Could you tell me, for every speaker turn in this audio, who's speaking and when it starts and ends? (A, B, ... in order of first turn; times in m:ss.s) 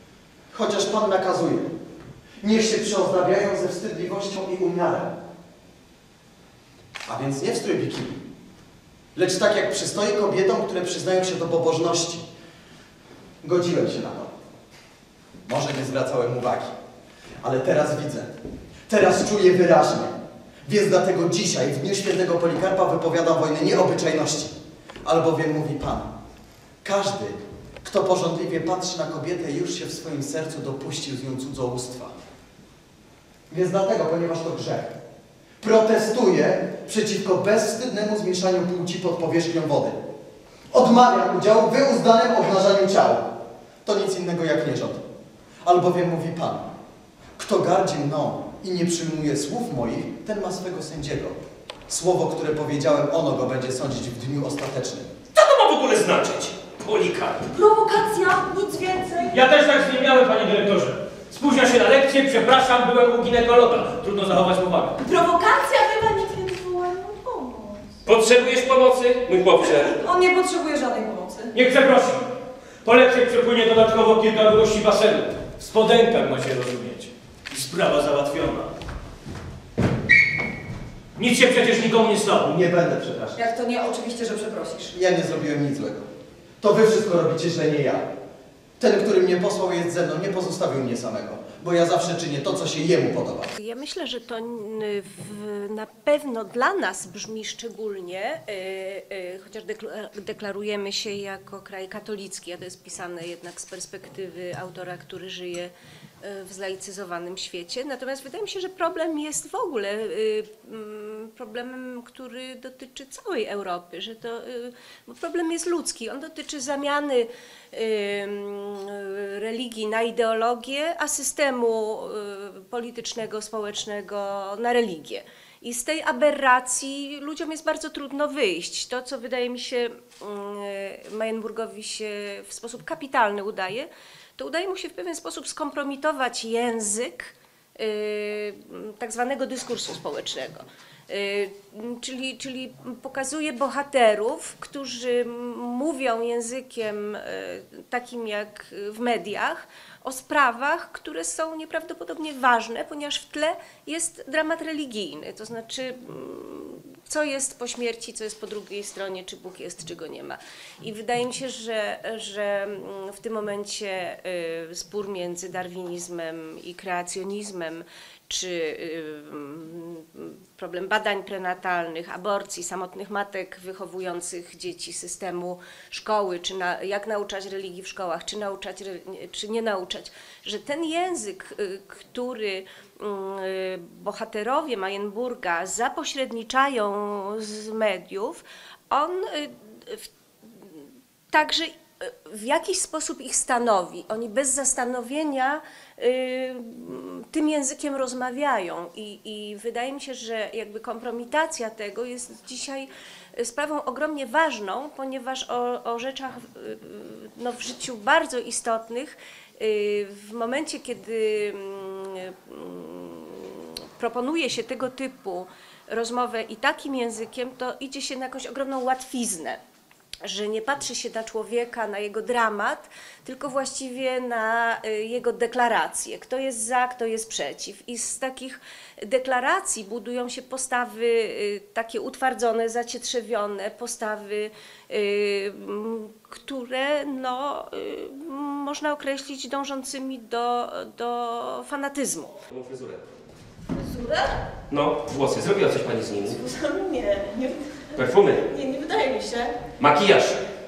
0:00.5-0:01.7 A
0:02.4-0:05.1 A
0:07.1-0:08.2 A
0:09.1-0:12.2 A
0:13.4-0:14.3 A
0:15.5-0:16.7 A
0:17.4-0:18.3 A
0:18.9-0:20.1 A
0:20.6-0:24.5 A
0:25.0-0:26.1 A
0:26.8-0:32.1 A
0:33.5-0:34.9 A
0:35.6-0:40.0 A
0:40.7-0:43.2 A
0:43.8-0:45.0 A
0:45.6-0:46.6 A
0:47.4-0:51.4 A
0:51.9-0:55.1 A
0:55.3-0:57.5 B
0:57.5-0:59.4 C
0:59.3-1:05.0 D
1:05.0-1:07.8 C
1:08.0-1:10.0 B
1:09.6-1:11.5 C
1:11.5-1:12.2 D
1:12.8-1:18.7 D
1:21.2-1:22.5 D
1:22.4-1:23.4 A
1:23.4-1:24.9 C
1:24.9-1:26.0 A
1:26.6-1:28.0 A
1:28.8-1:33.5 A
1:33.6-3:39.6 E
3:40.2-4:02.4 E
4:02.5-4:03.0 B
4:03.8-4:04.4 C
4:04.7-4:06.4 B
4:06.4-4:09.6 C
4:07.9-4:08.4 B
4:09.8-4:10.4 B